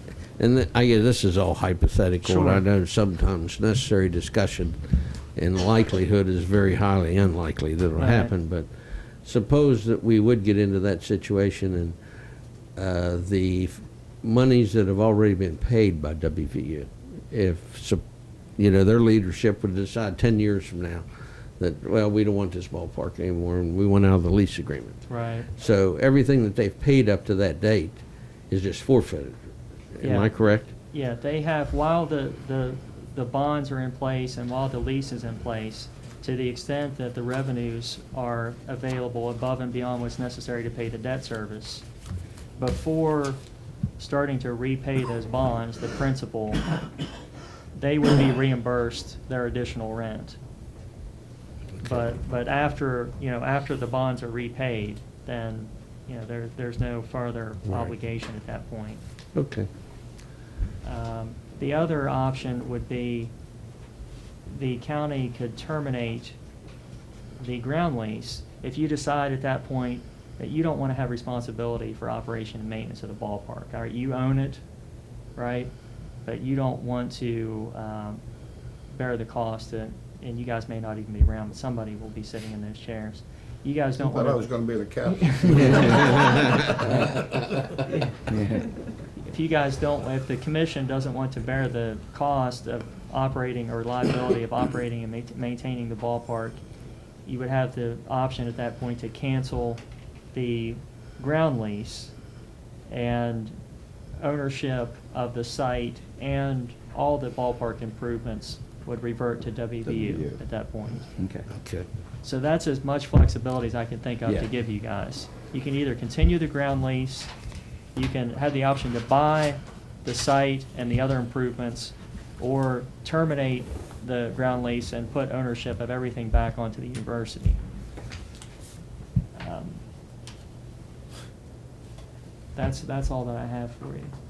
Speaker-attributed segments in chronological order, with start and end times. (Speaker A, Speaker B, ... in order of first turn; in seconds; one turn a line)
Speaker A: 0.3-12.0
Speaker B: 2.2-2.6
Speaker B: 8.0-8.3
Speaker A: 12.7-18.0
Speaker A: 18.6-21.1
Speaker A: 21.6-30.7
Speaker B: 25.1-25.5
Speaker B: 30.0-41.9
Speaker B: 42.6-43.4
Speaker B: 44.0-46.7
Speaker B: 47.7-50.4
Speaker B: 51.8-59.0
Speaker A: 57.7-57.9
Speaker A: 59.3-59.7
Speaker B: 60.8-63.3
Speaker B: 64.5-66.4
Speaker B: 67.4-74.6
Speaker B: 75.3-78.2
Speaker B: 78.9-84.5
Speaker C: 84.0-86.7
Speaker B: 85.0-86.2
Speaker D: 85.5-86.0
Speaker A: 86.1-86.6
Speaker D: 86.9-87.2
Speaker D: 88.3-88.7
Speaker B: 89.2-96.6
Speaker B: 97.2-102.1
Speaker B: 102.9-103.6
Speaker B: 104.2-111.1
Speaker D: 109.8-110.4
Speaker D: 111.2-111.5
Speaker A: 111.5-111.9
Speaker B: 112.2-117.3
Speaker B: 117.9-127.6
Speaker B: 129.3-129.8
Speaker B: 132.5-134.1